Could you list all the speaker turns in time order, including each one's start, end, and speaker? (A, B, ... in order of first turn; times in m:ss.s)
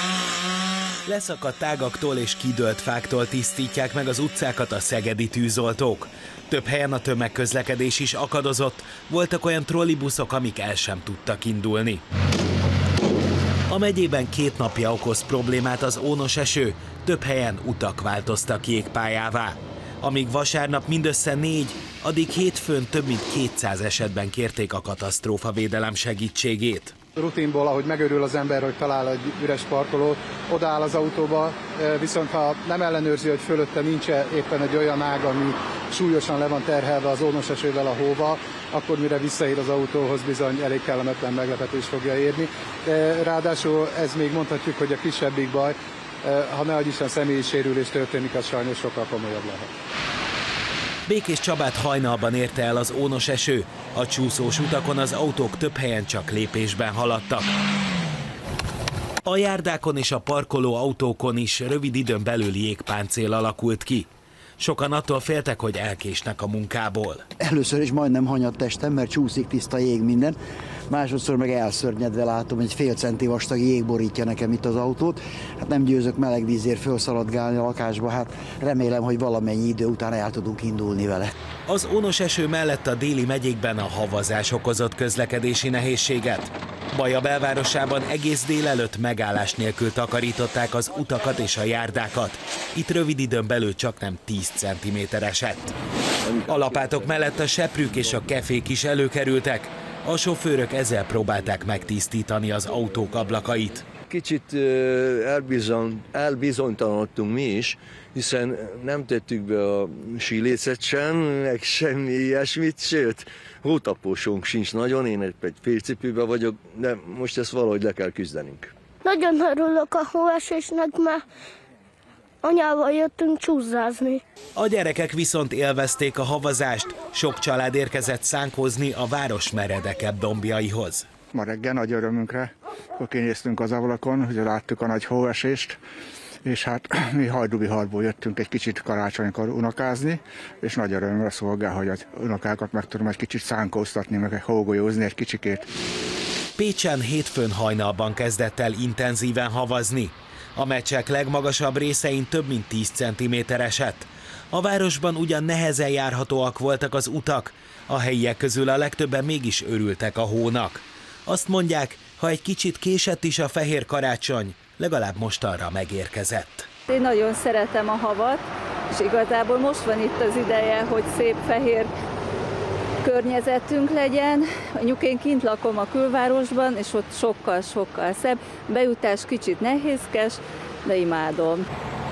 0:01.0-0:12.0 A
0:13.7-0:26.9 A
0:27.2-0:49.7 B
0:51.1-0:57.5 A
0:59.2-1:07.2 A
1:07.4-1:10.4 C
1:10.9-1:21.3 C
1:21.7-1:35.7 A
1:36.3-1:37.1 D
1:36.4-1:43.9 A
1:44.0-1:58.7 D
1:59.0-2:01.2 E
2:02.4-2:04.2 E
2:04.6-2:11.0 A
2:11.3-2:15.8 F
2:16.4-2:25.7 F
2:26.6-2:46.7 A
2:46.9-2:48.4 G
2:48.9-2:51.9 G
2:53.0-3:01.6 G